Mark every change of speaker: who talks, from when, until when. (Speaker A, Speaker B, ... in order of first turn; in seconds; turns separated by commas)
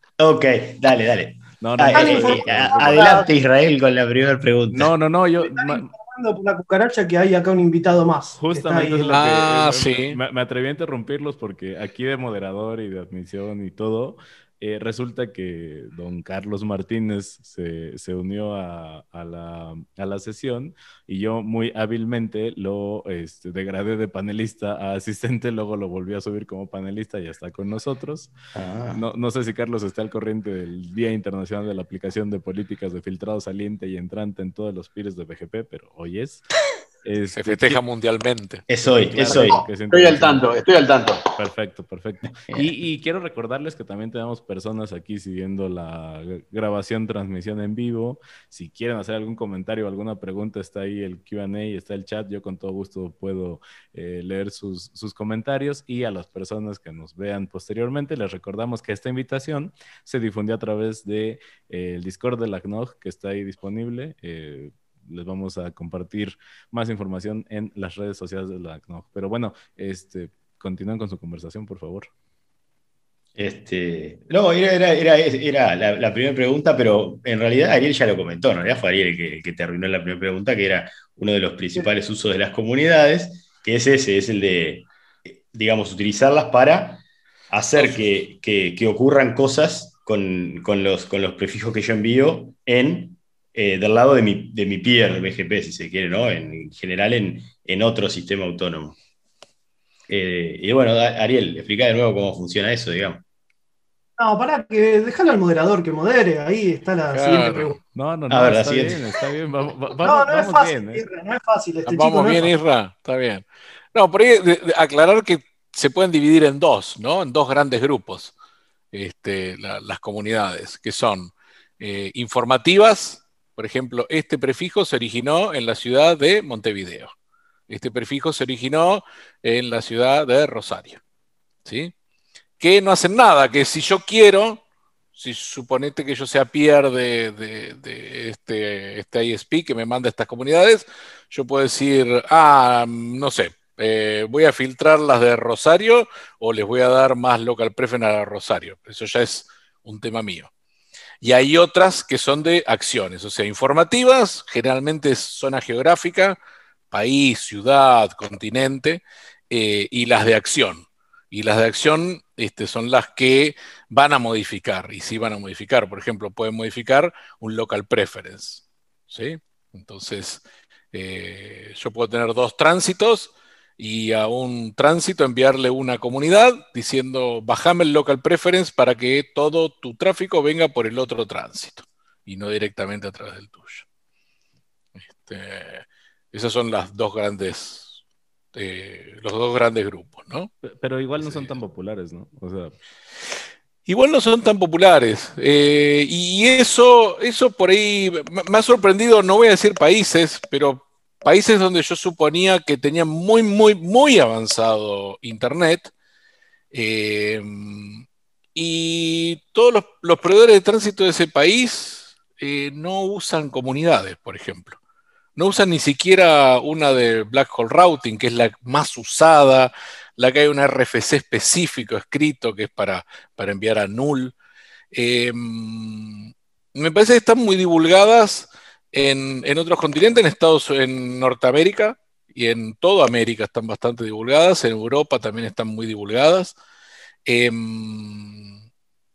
Speaker A: 0.2-4.9, Speaker B: 1.6-3.3, Speaker C: 1.9-3.3, Speaker B: 4.7-5.9, Speaker C: 5.4-9.2, Speaker B: 8.4-28.3, Speaker D: 9.1-10.2, Speaker A: 28.5-29.0, Speaker B: 28.9-36.4, Speaker B: 37.0-37.8, Speaker D: 37.3-38.6, Speaker A: 38.7-39.6, Speaker B: 38.8-40.6, Speaker E: 39.3-41.3, Speaker B: 41.4-72.1, Speaker A: 73.3-99.0, Speaker A: 100.1-103.2, Speaker C: 104.2-107.8, Speaker D: 107.1-107.8, Speaker B: 107.9-111.0, Speaker A: 108.3-109.0, Speaker C: 110.0-112.5, Speaker D: 111.9-118.3, Speaker D: 118.9-127.1, Speaker D: 127.7-131.0, Speaker D: 131.6-131.9, Speaker D: 132.6-134.6, Speaker D: 135.1-150.5, Speaker D: 151.2-156.4, Speaker D: 156.9-183.8, Speaker D: 185.0-188.0, Speaker D: 188.5-190.5, Speaker B: 190.6-192.8, Speaker D: 191.2-191.6, Speaker D: 193.9-205.9, Speaker D: 206.7-214.8, Speaker D: 215.3-224.3, Speaker D: 224.9-236.6, Speaker D: 237.2-238.5